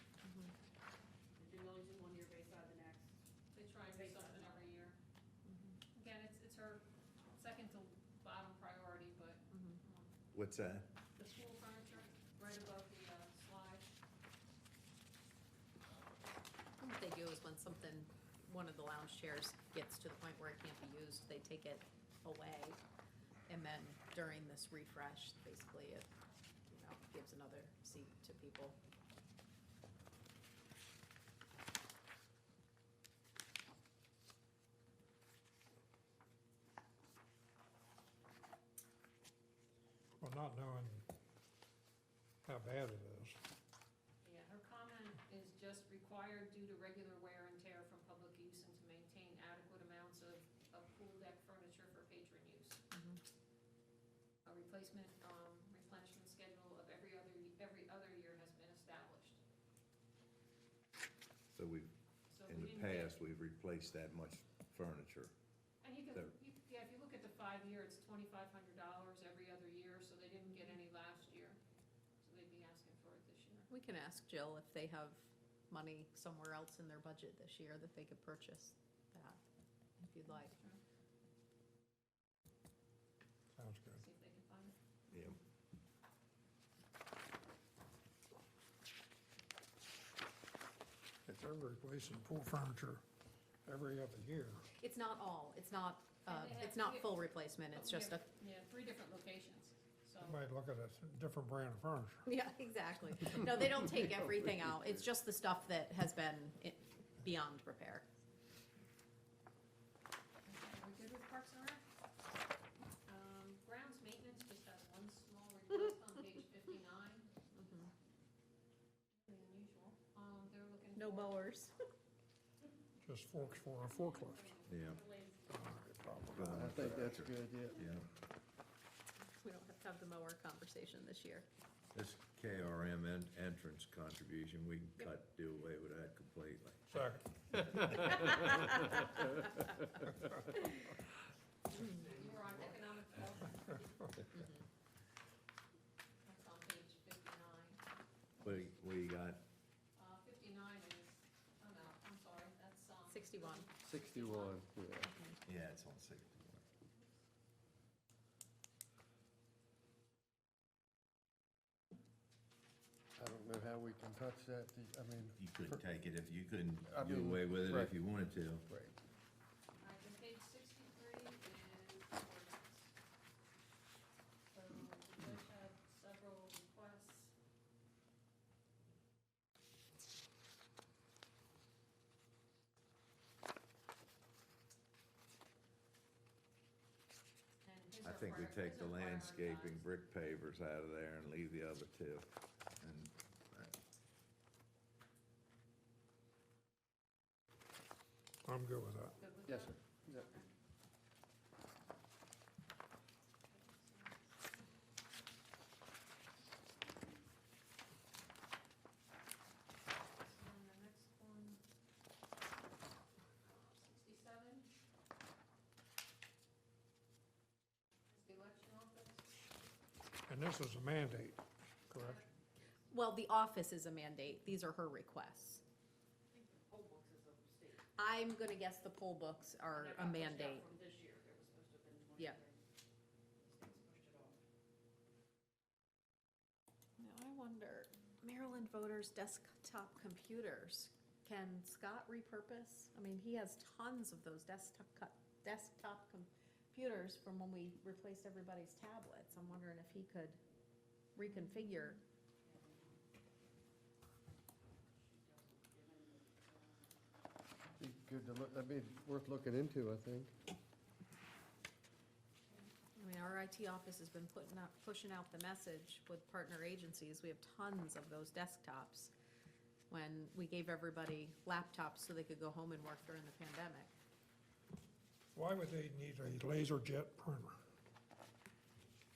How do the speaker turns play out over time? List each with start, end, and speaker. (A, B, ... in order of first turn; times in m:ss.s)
0:00.2-0:00.5 A
0:01.4-0:03.2 B
0:03.5-0:05.0 C
0:03.8-0:04.6 B
0:05.4-0:05.8 A
0:05.9-0:10.1 C
0:09.5-0:09.8 A
0:10.3-0:10.9 D
0:11.2-0:13.9 C
0:16.8-0:22.8 A
0:23.5-0:26.1 A
0:26.7-0:28.8 A
0:40.2-0:41.0 E
0:42.4-0:43.4 E
0:44.2-0:52.8 C
0:52.9-0:53.2 A
0:54.4-0:59.4 C
1:01.5-1:01.9 D
1:02.3-1:03.1 C
1:02.4-1:05.3 D
1:05.8-1:11.6 C
1:12.2-1:13.7 C
1:13.7-1:19.4 A
1:20.0-1:20.6 A
1:20.3-1:20.8 C
1:23.6-1:24.0 E
1:24.0-1:24.7 C
1:25.1-1:25.4 D
1:31.2-1:33.0 E
1:33.6-1:34.6 E
1:34.8-1:38.2 A
1:36.3-1:37.2 C
1:37.7-1:40.4 C
1:40.2-1:42.3 E
1:42.2-1:48.0 A
1:50.4-1:51.8 C
1:53.0-1:57.3 C
1:57.5-1:57.9 A
1:59.2-2:01.5 C
2:01.0-2:01.7 A
2:03.0-2:04.5 E
2:03.8-2:04.8 C
2:04.7-2:05.0 D
2:04.9-2:05.4 B
2:05.5-2:07.0 E
2:06.3-2:08.1 D
2:06.4-2:07.8 F
2:09.4-2:11.4 A
2:11.9-2:16.8 D
2:16.9-2:17.3 E
2:17.6-2:18.3 D
2:21.8-2:22.5 D
2:21.9-2:24.1 C
2:24.3-2:24.6 A
2:26.2-2:27.8 C
2:28.4-2:29.4 D
2:30.0-2:34.6 C
2:33.1-2:33.7 A
2:33.8-2:35.1 F
2:35.1-2:35.4 A
2:35.4-2:36.6 D
2:43.2-2:45.8 F
2:45.4-2:48.6 D
2:46.8-2:47.9 F
2:48.7-2:48.9 F
2:49.8-2:52.9 C
2:54.5-2:57.3 C
3:07.6-3:09.8 C
3:08.0-3:12.3 D
3:12.8-3:13.7 D
3:18.4-3:19.1 E
3:19.2-3:20.5 C
3:19.5-3:20.2 F
3:23.5-3:24.2 C
3:30.2-3:31.6 C
3:33.4-3:34.7 C
3:38.1-3:39.2 C
3:40.3-3:42.2 E
3:41.9-3:42.2 C
3:42.9-3:45.6 A
3:46.3-3:47.8 B
3:48.0-3:50.7 A
3:49.7-3:52.6 B
3:53.4-3:54.4 B
3:57.0-4:10.4 A
4:11.2-4:12.0 A
4:12.4-4:13.0 B
4:14.9-4:17.3 B
4:17.8-4:20.3 F
4:22.9-4:29.1 A
4:29.9-4:33.9 A
4:35.3-4:37.6 E